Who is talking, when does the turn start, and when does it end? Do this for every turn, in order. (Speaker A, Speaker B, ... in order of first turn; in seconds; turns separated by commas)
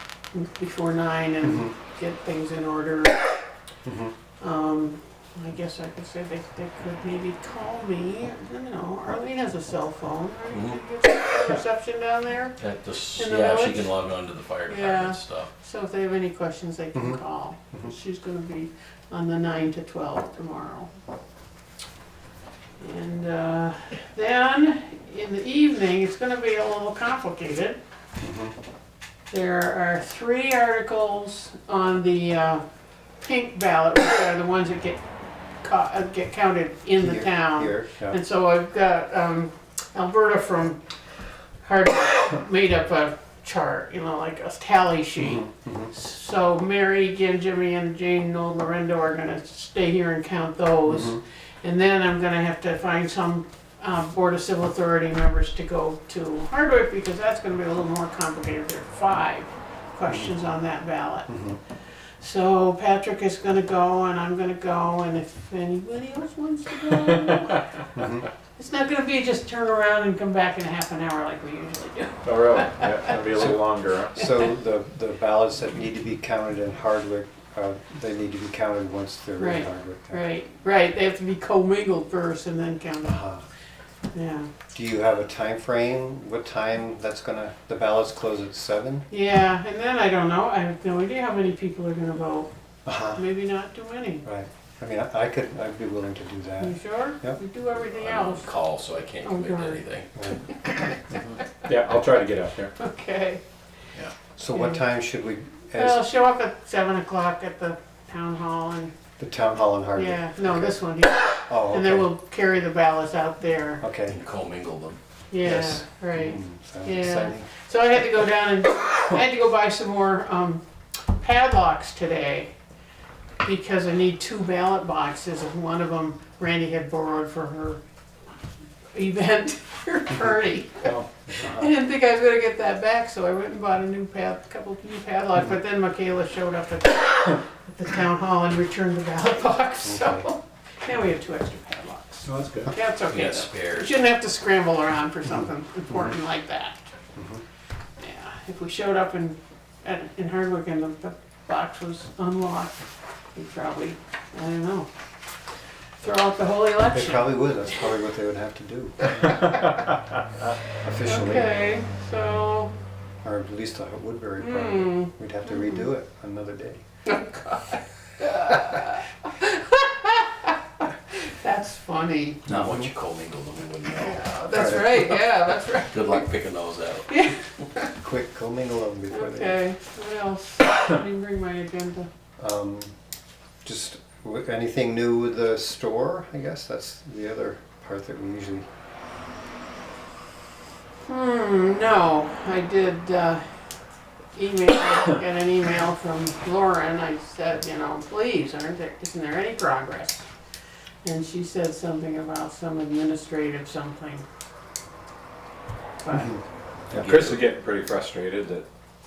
Speaker A: 0.3-3.3, Speaker B: 1.4-1.7, Speaker B: 3.9-4.1, Speaker A: 4.4-12.6, Speaker C: 10.5-10.8, Speaker C: 12.6-15.5, Speaker A: 13.2-13.9, Speaker A: 14.7-20.9, Speaker B: 16.9-17.2, Speaker A: 22.8-27.8, Speaker B: 28.2-28.6, Speaker A: 29.3-32.6, Speaker A: 33.2-35.0, Speaker A: 35.6-40.8, Speaker B: 37.0-38.2, Speaker A: 41.6-61.3, Speaker B: 45.2-45.9, Speaker B: 50.9-51.2, Speaker B: 60.1-60.3, Speaker B: 61.3-61.6, Speaker A: 62.2-67.9, Speaker D: 67.1-67.5, Speaker B: 68.0-68.3, Speaker A: 68.5-73.5, Speaker D: 72.2-74.2, Speaker B: 73.3-73.6, Speaker B: 74.1-80.2, Speaker A: 79.4-83.2, Speaker B: 83.0-83.4, Speaker A: 84.1-84.5, Speaker B: 84.7-89.1, Speaker A: 89.1-92.5, Speaker B: 92.8-93.2, Speaker A: 93.1-94.2, Speaker B: 94.2-97.4, Speaker A: 96.6-98.5, Speaker C: 97.8-100.1, Speaker A: 99.2-99.8, Speaker B: 100.1-100.4, Speaker A: 100.5-101.3, Speaker D: 101.6-102.7, Speaker A: 102.8-103.4, Speaker B: 104.4-106.0, Speaker A: 104.5-104.8, Speaker A: 105.8-108.9, Speaker B: 109.2-110.8, Speaker A: 110.0-113.8, Speaker B: 111.5-112.1, Speaker B: 113.8-114.2, Speaker C: 114.1-115.0, Speaker A: 115.3-122.5, Speaker B: 115.4-117.5, Speaker A: 123.4-127.8, Speaker A: 128.9-146.8, Speaker B: 131.3-131.7, Speaker B: 139.8-140.3, Speaker D: 142.2-142.7, Speaker C: 143.1-144.0, Speaker B: 145.9-146.2, Speaker B: 147.2-147.4, Speaker A: 148.0-154.9, Speaker A: 156.0-157.4, Speaker B: 156.9-159.4, Speaker A: 159.1-159.8, Speaker B: 160.8-161.5, Speaker A: 161.0-162.7, Speaker B: 163.2-166.8, Speaker A: 164.4-165.9, Speaker A: 167.1-172.5, Speaker C: 172.5-174.9, Speaker B: 172.5-172.9, Speaker A: 174.0-176.3, Speaker B: 174.5-175.1, Speaker C: 175.8-177.3, Speaker A: 177.1-177.9, Speaker B: 177.9-179.6, Speaker A: 179.1-182.1, Speaker B: 182.4-182.9, Speaker B: 183.6-188.7, Speaker A: 191.0-193.4, Speaker A: 194.3-200.2, Speaker A: 201.0-204.2, Speaker A: 206.0-206.4, Speaker D: 206.9-208.7, Speaker C: 206.9-207.4